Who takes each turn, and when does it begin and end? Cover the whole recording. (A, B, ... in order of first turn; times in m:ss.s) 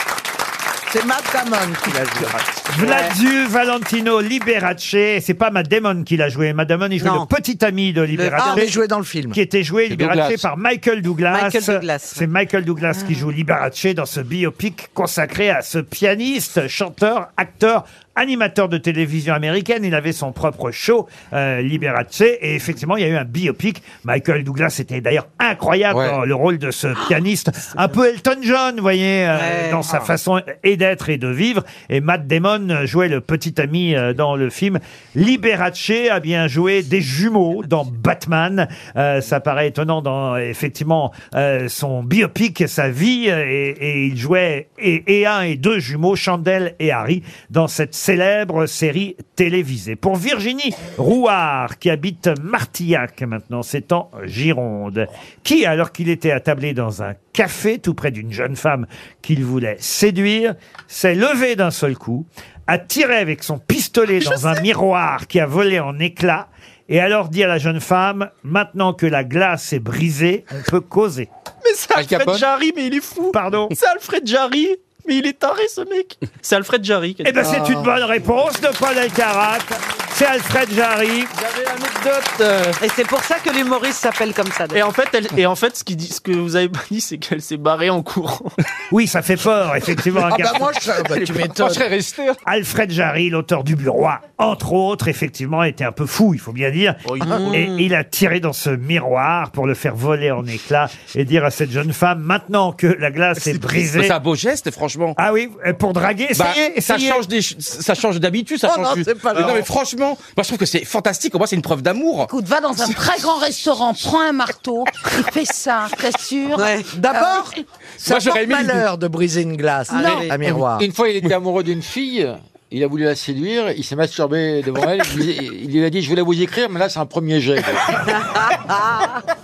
0:00.9-0:03.1 A
0:02.7-0:08.8 B
0:02.8-0:03.1 C
0:07.0-0:07.3 C
0:08.2-0:08.8 C
0:08.4-0:09.4 A
0:09.3-1:11.3 B
0:09.9-0:10.4 D
0:11.3-0:12.2 C
0:25.9-0:26.2 D
0:29.3-0:30.1 C
1:11.6-1:17.9 E
1:11.9-1:12.5 D
1:13.3-1:13.8 B
1:17.2-1:21.3 B
1:21.4-1:22.8 E
1:22.8-1:24.9 C
1:24.7-1:28.5 E
1:28.9-1:30.7 B
1:30.2-1:31.9 A
1:31.1-1:32.4 F
1:32.4-1:44.2 B
1:37.0-1:37.7 E
1:37.3-1:37.7 C
1:43.4-1:45.2 F
1:45.2-1:47.2 B
1:46.4-1:52.3 F
1:48.6-1:49.7 A
1:52.2-1:57.6 G
1:56.6-1:56.9 C
1:56.9-2:00.9 A
1:58.0-1:58.8 F
1:59.9-2:00.3 C
2:00.5-2:08.0 D
2:08.1-2:09.2 C